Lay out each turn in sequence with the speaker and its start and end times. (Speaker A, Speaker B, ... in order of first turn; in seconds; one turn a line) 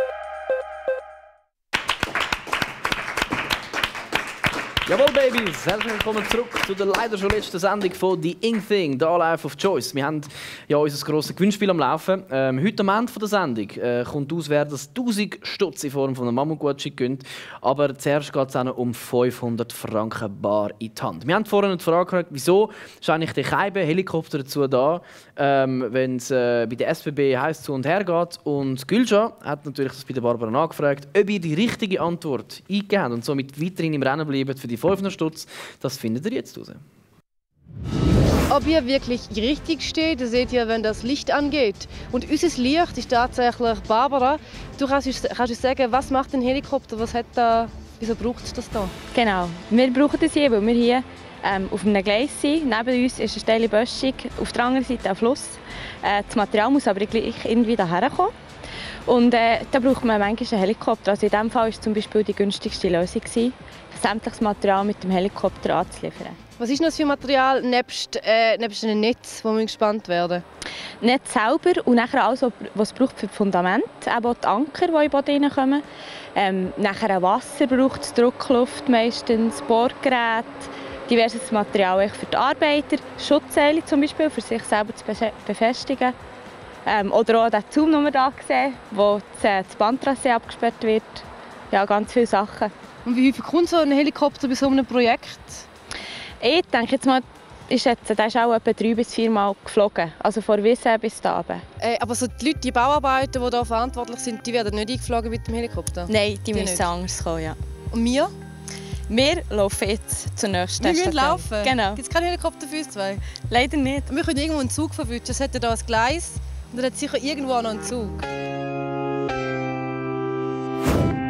Speaker A: 4.9-36.8
Speaker B: 38.5-48.9
Speaker C: 49.1-58.3
Speaker C: 59.1-66.4
Speaker B: 66.6-70.4
Speaker C: 71.0-75.8
Speaker C: 76.3-86.2
Speaker C: 86.9-92.7
Speaker B: 93.0-95.7
Speaker C: 96.4-101.6
Speaker B: 101.8-106.8
Speaker C: 106.1-107.6
Speaker B: 107.9-108.3
Speaker C: 109.1-112.0
Speaker B: 110.8-113.2
Speaker C: 113.5-114.1
Speaker B: 114.1-118.3